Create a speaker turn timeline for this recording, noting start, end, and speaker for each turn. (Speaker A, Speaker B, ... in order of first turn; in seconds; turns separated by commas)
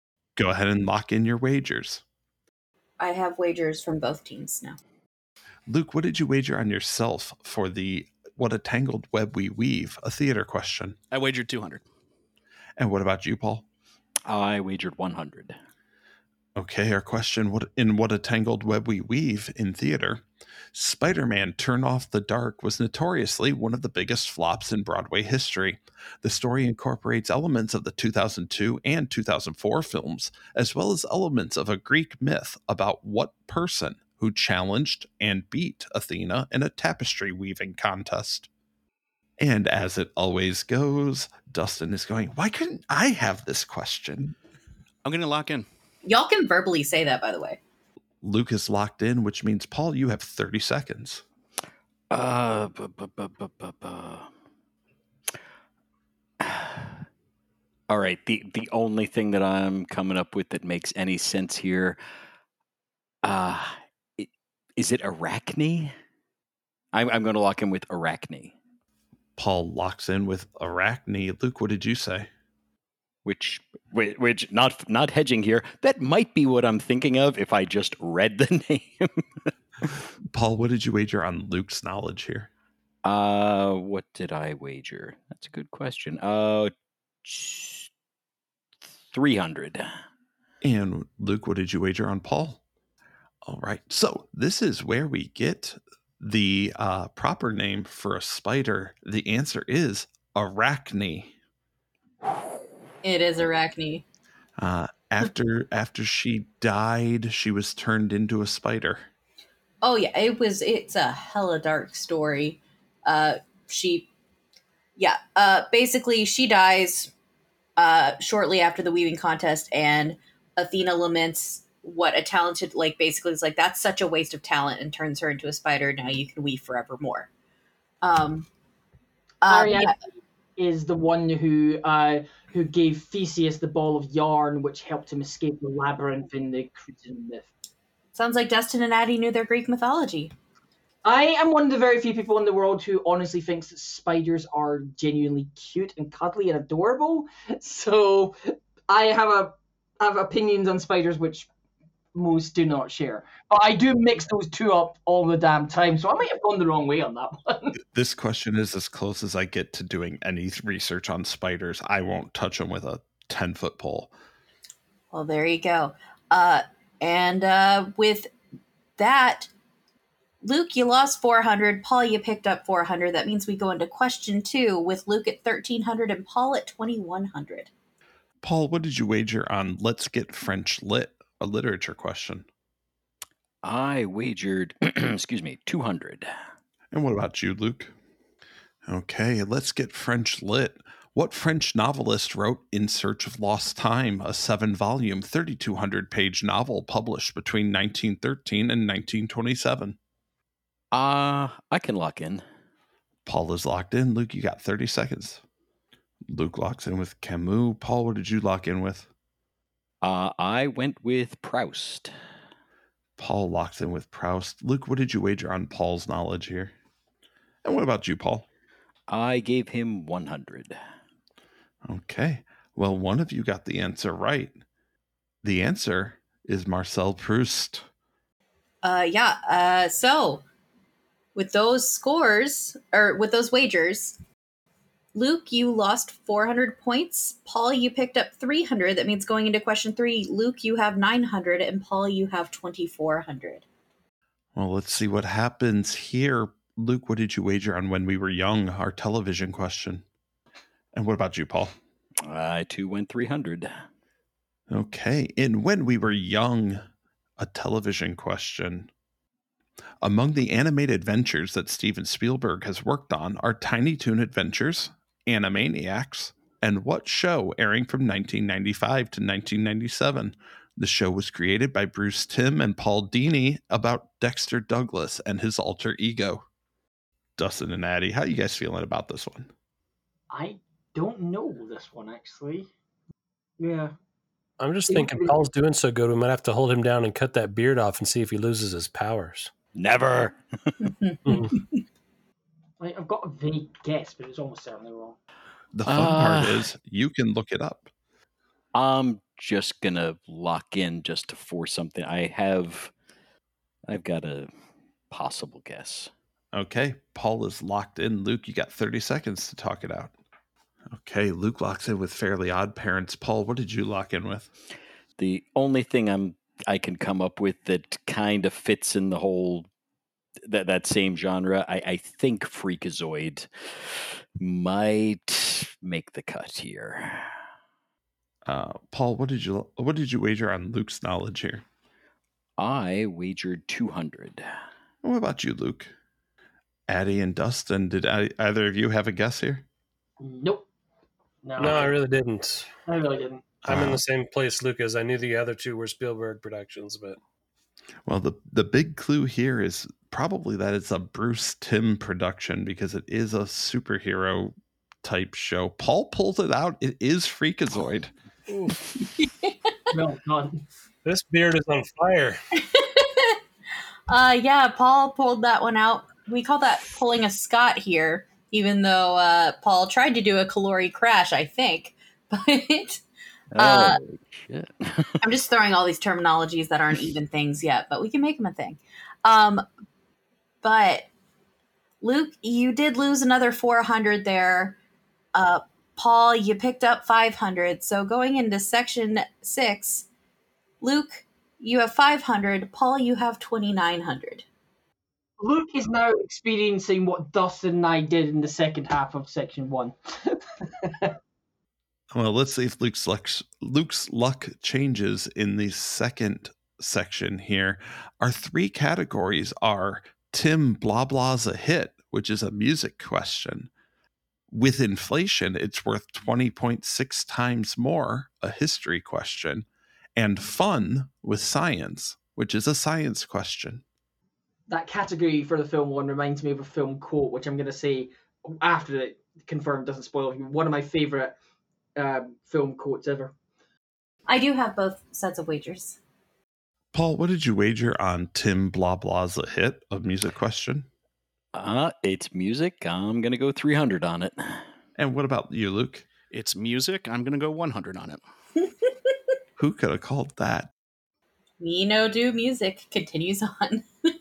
Speaker A: 0.4-2.0, Speaker B: 3.0-4.8, Speaker A: 5.7-10.9, Speaker C: 11.1-11.8, Speaker A: 12.8-13.7, Speaker D: 14.3-15.5, Speaker A: 16.6-20.2, Speaker A: 20.7-38.5, Speaker A: 39.4-44.3, Speaker C: 45.0-45.6, Speaker B: 46.0-47.6, Speaker A: 48.2-51.2, Speaker D: 52.1-54.3, Speaker D: 56.4-57.0, Speaker D: 57.9-62.0, Speaker D: 63.2-65.9, Speaker D: 66.9-68.5, Speaker A: 69.3-72.3, Speaker D: 73.2-79.5, Speaker A: 80.3-82.5, Speaker D: 83.0-86.7, Speaker D: 87.2-87.9, Speaker D: 89.1-89.9, Speaker A: 90.6-92.6, Speaker A: 93.5-101.3, Speaker B: 103.0-104.0, Speaker A: 104.6-109.1, Speaker B: 109.8-114.1, Speaker B: 115.0-117.1, Speaker B: 117.8-127.3, Speaker B: 128.0-128.5, Speaker B: 129.4-129.9, Speaker E: 129.5-129.9, Speaker E: 130.6-137.5, Speaker B: 138.1-140.3, Speaker E: 141.0-151.5, Speaker E: 152.1-157.7, Speaker A: 157.9-164.1, Speaker B: 165.1-168.3, Speaker B: 169.0-169.5, Speaker B: 170.4-177.7, Speaker A: 178.4-182.4, Speaker D: 183.6-186.3, Speaker A: 186.9-187.9, Speaker A: 188.9-200.0, Speaker D: 200.9-202.4, Speaker A: 203.2-205.4, Speaker A: 206.3-209.1, Speaker D: 210.0-212.1, Speaker A: 213.2-216.7, Speaker A: 217.6-218.4, Speaker D: 219.1-220.8, Speaker A: 221.8-224.6, Speaker A: 225.4-227.8, Speaker B: 228.8-230.4, Speaker B: 231.3-234.2, Speaker B: 235.1-243.6, Speaker A: 244.5-250.0, Speaker A: 250.9-251.8, Speaker D: 252.2-253.7, Speaker A: 254.7-256.8, Speaker A: 257.4-258.9, Speaker A: 260.0-276.4, Speaker A: 277.4-279.5, Speaker E: 280.3-282.7, Speaker E: 283.6-283.9, Speaker F: 284.6-289.5, Speaker E: 284.9-285.3, Speaker D: 289.8-290.9, Speaker B: 290.8-291.8, Speaker F: 291.2-291.5, Speaker E: 292.8-295.2, Speaker A: 295.7-297.9, Speaker D: 295.9-296.6, Speaker D: 298.7-302.9, Speaker D: 303.9-304.5, Speaker D: 305.1-306.1, Speaker A: 306.5-310.1, Speaker A: 310.9-314.5, Speaker D: 315.2-319.7, Speaker D: 320.4-327.3, Speaker A: 328.4-331.6, Speaker D: 332.6-334.4, Speaker A: 335.0-335.9, Speaker A: 336.9-339.6, Speaker E: 340.2-340.6, Speaker E: 341.4-341.9, Speaker F: 341.6-342.7, Speaker E: 342.9-343.6, Speaker F: 343.6-347.2, Speaker A: 343.7-344.0, Speaker A: 348.1-358.1, Speaker B: 359.0-359.5, Speaker E: 359.9-360.6, Speaker F: 361.0-362.4, Speaker B: 362.6-363.4, Speaker B: 364.1-373.0, Speaker D: 373.5-375.3, Speaker B: 373.6-374.0, Speaker B: 375.2-379.6, Speaker B: 380.6-381.1, Speaker B: 382.0-384.8, Speaker B: 385.3-390.1, Speaker B: 390.8-394.4, Speaker E: 395.4-401.1, Speaker A: 402.1-413.7, Speaker A: 414.5-423.8, Speaker E: 424.7-431.3, Speaker E: 431.9-433.3, Speaker B: 434.3-436.0, Speaker A: 436.9-440.9, Speaker D: 441.5-444.6, Speaker A: 445.0-446.0, Speaker C: 446.3-448.2, Speaker A: 449.6-450.7, Speaker B: 451.6-453.9